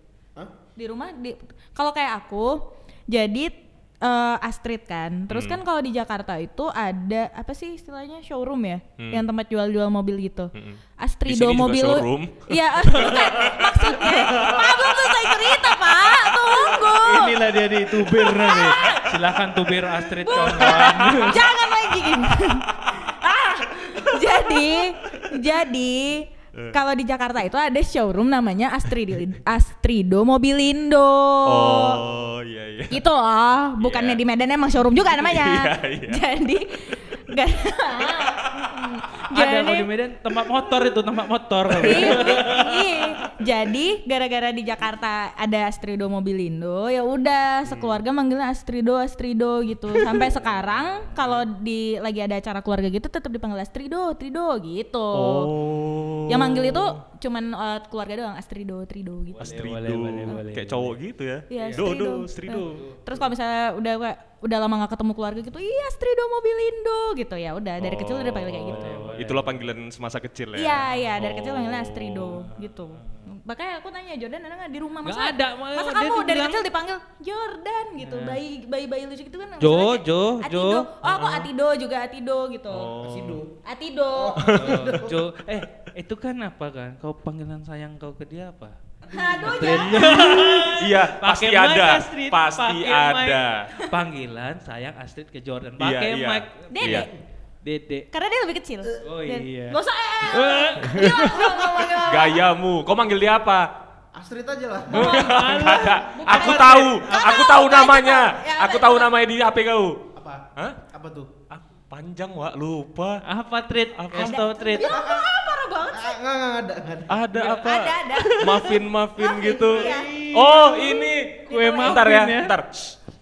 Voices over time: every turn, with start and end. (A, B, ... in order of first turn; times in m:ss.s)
0:00.8-0:19.1 A
0:05.3-0:05.6 B
0:09.0-0:09.2 B
0:10.5-0:14.4 B
0:12.9-0:13.3 C
0:14.0-0:14.9 C
0:16.7-0:21.4 C
0:20.2-0:32.0 A
0:20.6-0:21.3 B
0:23.9-0:24.2 B
0:31.4-0:33.0 B
0:32.9-0:39.9 A
0:33.8-0:34.2 B
0:34.9-0:36.2 B
0:38.2-0:38.7 B
0:39.3-0:43.0 C
0:41.7-0:55.5 A
0:41.8-0:42.6 B
0:47.6-0:48.0 B
0:50.0-0:51.5 C
0:55.1-0:57.0 B
0:56.3-0:59.5 A
0:59.4-1:00.9 C
0:59.4-1:02.8 B
1:01.5-1:09.2 A
1:01.6-1:01.9 C
1:02.5-1:03.3 C
1:07.8-1:12.4 B
1:08.7-1:09.6 C
1:10.5-1:23.0 A
1:12.3-1:13.2 C
1:15.0-1:16.7 C
1:18.0-1:18.4 C
1:19.6-1:20.9 C
1:21.0-1:21.5 B
1:22.7-1:23.3 B
1:22.9-1:23.4 C
1:23.0-1:23.5 D
1:23.6-1:24.6 A
1:24.1-1:25.2 D
1:24.4-1:24.7 B
1:24.5-1:28.8 C
1:29.0-1:30.1 D
1:29.1-1:30.8 A
1:29.4-1:37.0 C
1:30.6-1:33.7 B
1:35.8-1:37.1 B
1:36.7-1:37.1 A
1:37.6-1:38.1 C
1:38.1-1:42.4 A
1:39.0-1:41.6 C
1:40.9-1:41.2 B
1:41.8-1:43.7 B
1:44.1-1:45.3 D
1:44.9-1:47.6 C
1:44.9-1:50.0 B
1:45.0-1:49.1 A
1:50.1-1:51.3 D
1:51.5-1:53.2 B
1:53.2-1:54.9 C
1:54.0-1:54.4 B
1:54.2-1:56.2 A
1:54.8-1:55.3 D
1:55.9-1:57.1 D
1:57.1-2:03.0 B
1:57.4-1:58.7 C
1:57.5-2:02.1 A
1:59.7-2:00.9 C
2:01.5-2:02.6 C